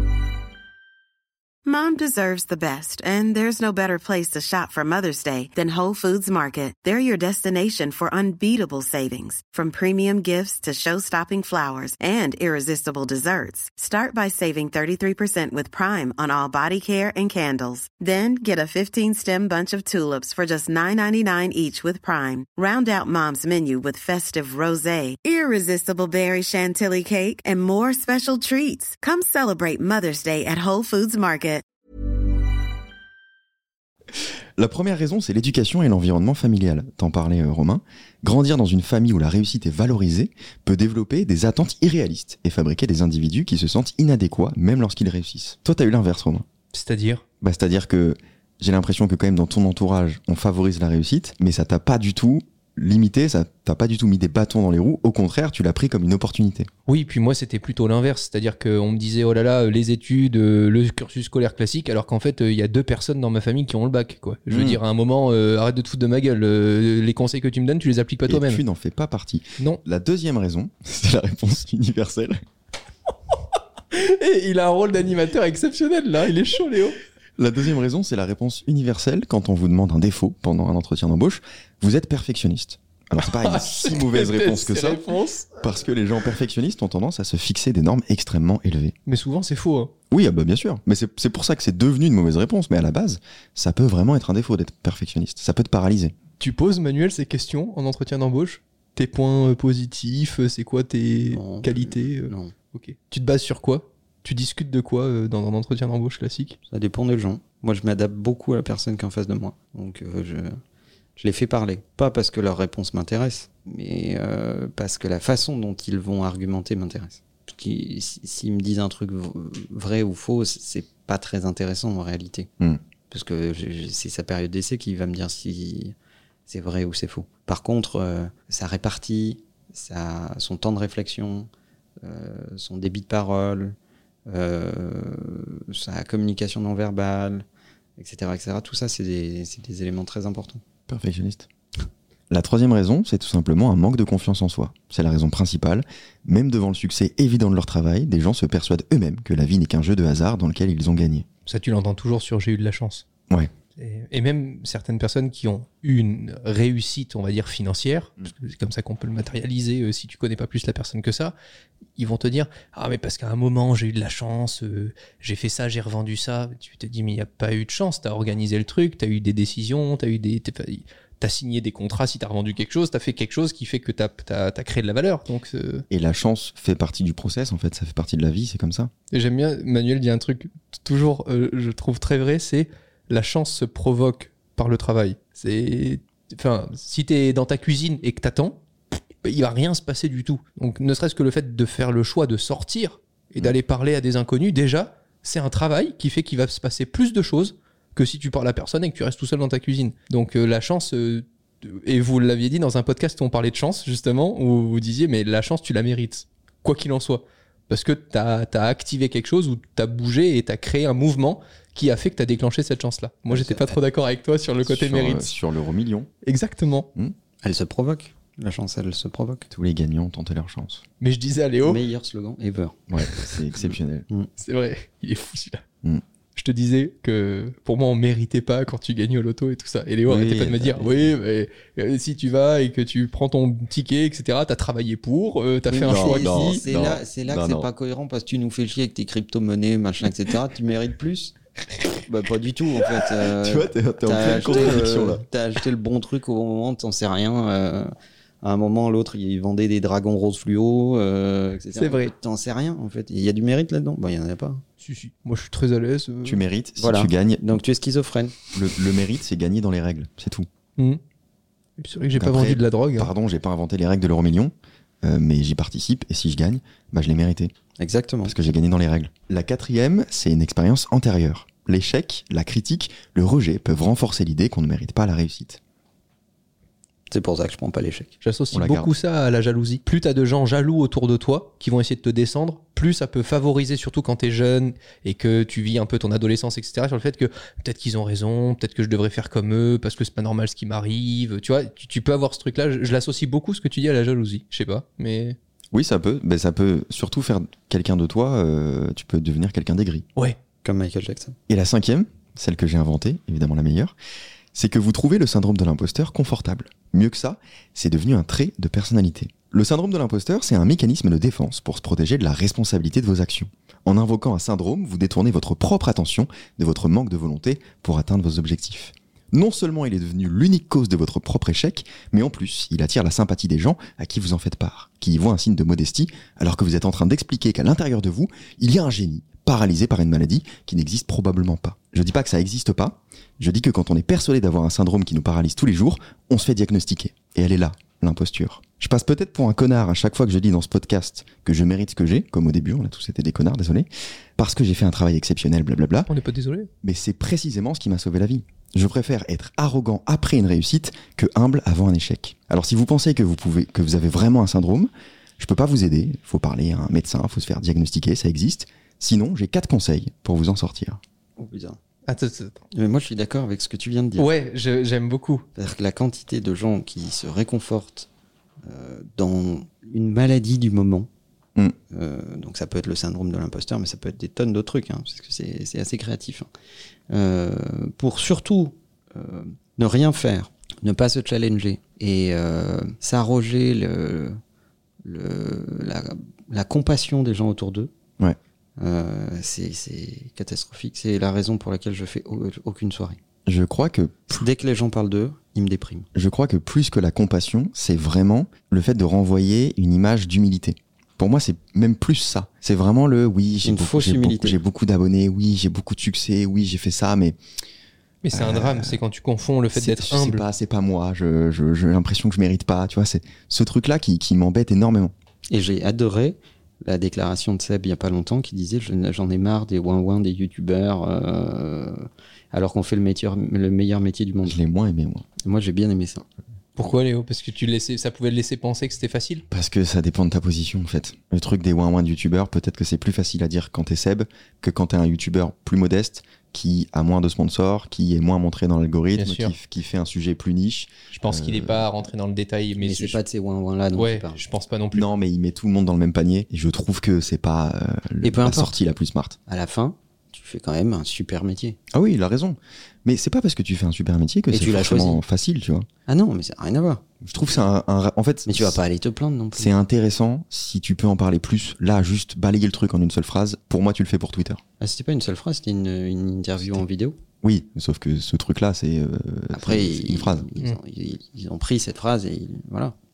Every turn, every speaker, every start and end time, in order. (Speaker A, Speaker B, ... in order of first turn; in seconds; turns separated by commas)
Speaker A: 1.6-31.6, Speaker B: 34.6-46.5, Speaker C: 46.7-47.2, Speaker B: 47.4-56.7, Speaker C: 56.9-68.6, Speaker B: 64.5-64.8, Speaker B: 68.3-72.4, Speaker C: 73.9-77.0, Speaker B: 77.4-85.0, Speaker C: 83.2-85.6, Speaker B: 85.6-88.9, Speaker C: 89.1-89.9, Speaker B: 90.1-96.2, Speaker C: 96.4-106.6, Speaker D: 101.2-102.5, Speaker D: 106.7-110.6, Speaker D: 111.2-122.5, Speaker D: 123.1-125.9, Speaker D: 126.5-131.5, Speaker D: 132.0-133.8, Speaker D: 134.3-137.4, Speaker D: 138.0-140.6, Speaker B: 140.9-141.5, Speaker B: 142.3-151.3, Speaker C: 151.5-153.1, Speaker C: 153.8-161.3, Speaker C: 162.0-175.8, Speaker B: 175.9-178.9, Speaker C: 179.1-188.6, Speaker C: 189.2-215.3, Speaker D: 213.3-213.8, Speaker B: 214.6-216.1, Speaker C: 216.2-216.9, Speaker D: 217.4-219.5, Speaker B: 219.5-220.8, Speaker C: 221.0-221.8, Speaker D: 221.7-222.8, Speaker B: 222.9-224.1, Speaker C: 224.4-225.6, Speaker C: 226.4-236.6, Speaker B: 230.1-231.1, Speaker D: 235.7-241.3, Speaker B: 235.9-237.7, Speaker D: 242.1-247.9, Speaker B: 243.3-245.2, Speaker C: 244.4-244.7, Speaker D: 248.4-254.6, Speaker C: 251.8-252.1, Speaker C: 254.8-256.4, Speaker B: 256.2-257.6, Speaker D: 256.8-258.4, Speaker B: 258.5-260.5, Speaker C: 261.8-263.1, Speaker B: 262.2-267.5, Speaker D: 267.8-268.4, Speaker B: 268.2-275.6, Speaker D: 277.1-278.2, Speaker C: 278.2-295.4, Speaker B: 278.5-278.9, Speaker B: 295.7-300.1, Speaker D: 300.6-301.4, Speaker B: 301.5-303.9, Speaker B: 304.5-346.1, Speaker C: 346.1-346.7, Speaker B: 346.8-361.0, Speaker D: 361.4-361.8, Speaker C: 362.1-362.6, Speaker D: 362.7-364.3, Speaker C: 364.2-365.5, Speaker D: 365.6-368.1, Speaker D: 368.6-371.1, Speaker D: 371.9-376.5, Speaker D: 377.1-384.4, Speaker D: 385.0-387.9, Speaker D: 388.8-393.2, Speaker B: 393.5-394.5, Speaker D: 394.3-396.1, Speaker B: 396.1-407.4, Speaker D: 403.6-404.6, Speaker C: 408.2-410.4, Speaker B: 408.3-409.0, Speaker B: 409.7-415.1, Speaker D: 415.5-424.6, Speaker B: 424.4-425.3, Speaker D: 425.4-426.2, Speaker C: 426.8-429.4, Speaker B: 429.5-441.9, Speaker C: 439.2-439.6, Speaker C: 441.1-443.2, Speaker D: 442.8-444.4, Speaker C: 444.0-445.1, Speaker B: 444.9-449.4, Speaker D: 448.2-448.8, Speaker D: 449.5-451.8, Speaker B: 451.9-455.9, Speaker D: 454.5-455.2, Speaker D: 456.1-457.2, Speaker B: 457.2-458.8, Speaker D: 458.5-459.8, Speaker B: 459.6-464.6, Speaker D: 464.8-467.2, Speaker B: 467.4-470.5, Speaker D: 469.5-472.9